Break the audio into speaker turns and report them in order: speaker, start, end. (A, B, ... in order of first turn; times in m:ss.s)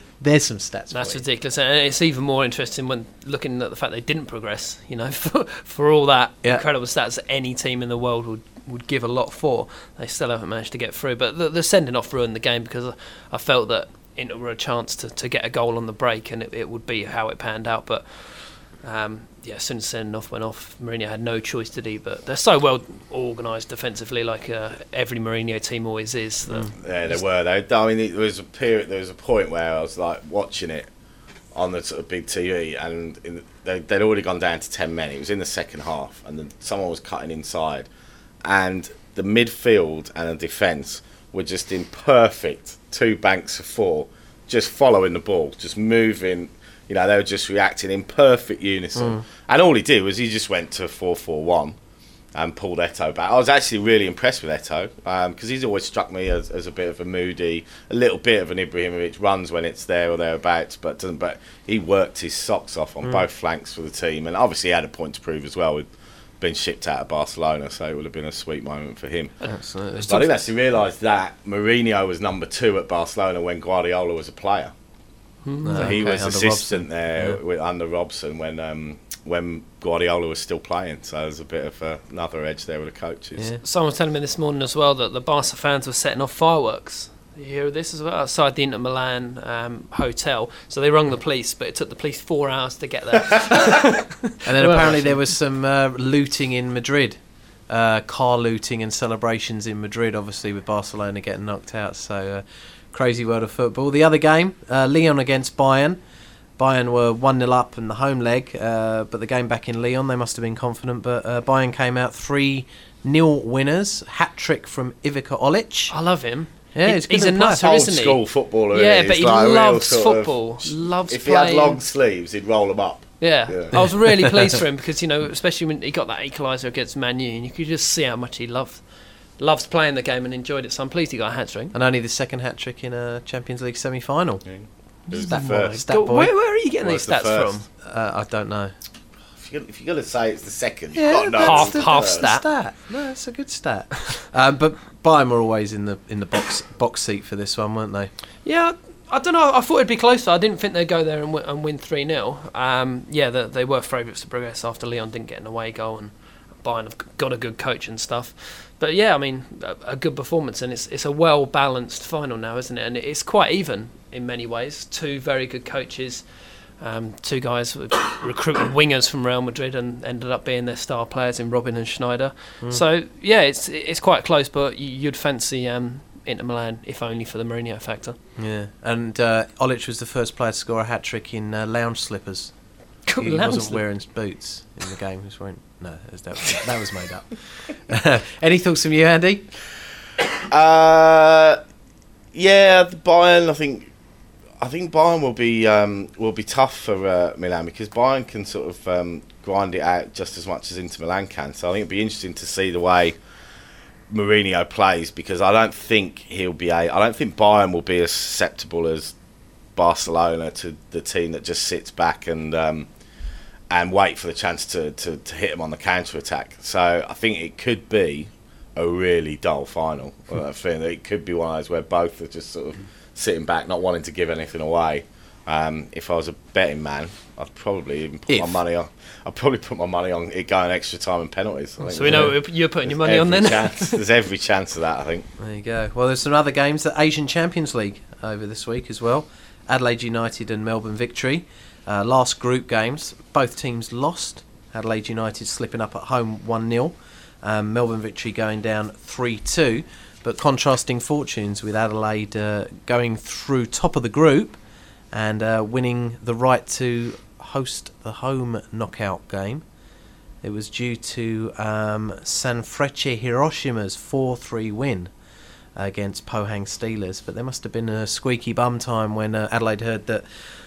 0:00.2-0:01.2 A
0:00.9-0:27.2 B
0:26.8-0:30.9 C
0:31.5-0:37.9 C
0:38.4-0:51.8 C
0:49.0-0:49.2 A
0:52.4-1:05.9 C
1:06.4-1:09.3 C
1:09.4-1:10.2 B
1:09.5-1:10.2 A
1:10.1-1:14.7 C
1:15.4-1:16.0 B
1:15.6-1:17.4 A
1:15.8-1:23.5 C
1:23.6-1:35.3 B
1:34.4-1:46.0 A
1:46.6-1:55.9 A
1:55.9-1:58.2 B
1:56.8-1:57.7 A
1:57.6-2:03.7 C
1:58.7-2:01.8 B
2:03.2-2:08.9 B
2:03.7-2:04.5 A
2:09.4-2:11.7 B
2:11.7-2:14.4 A
2:14.5-2:15.8 C
2:15.1-2:17.6 B
2:15.2-2:16.3 A
2:16.8-2:17.6 C
2:17.8-2:18.7 A
2:19.4-2:22.3 C
2:21.0-2:28.1 A
2:21.4-2:22.4 B
2:28.4-2:46.3 B
2:46.8-2:58.2 B
2:58.4-3:02.5 A
3:03.1-3:03.8 B
3:03.2-3:09.5 A
3:10.5-3:11.6 C
3:12.3-3:13.9 C
3:14.6-3:23.2 C
3:24.1-3:29.2 C
3:29.8-3:32.9 C
3:33.7-3:55.3 C
3:48.3-3:48.6 A
3:51.8-3:54.0 B
3:52.1-3:52.3 A
3:55.4-4:14.6 A
4:15.1-4:19.6 A
4:20.4-4:25.1 A
4:25.8-4:30.2 A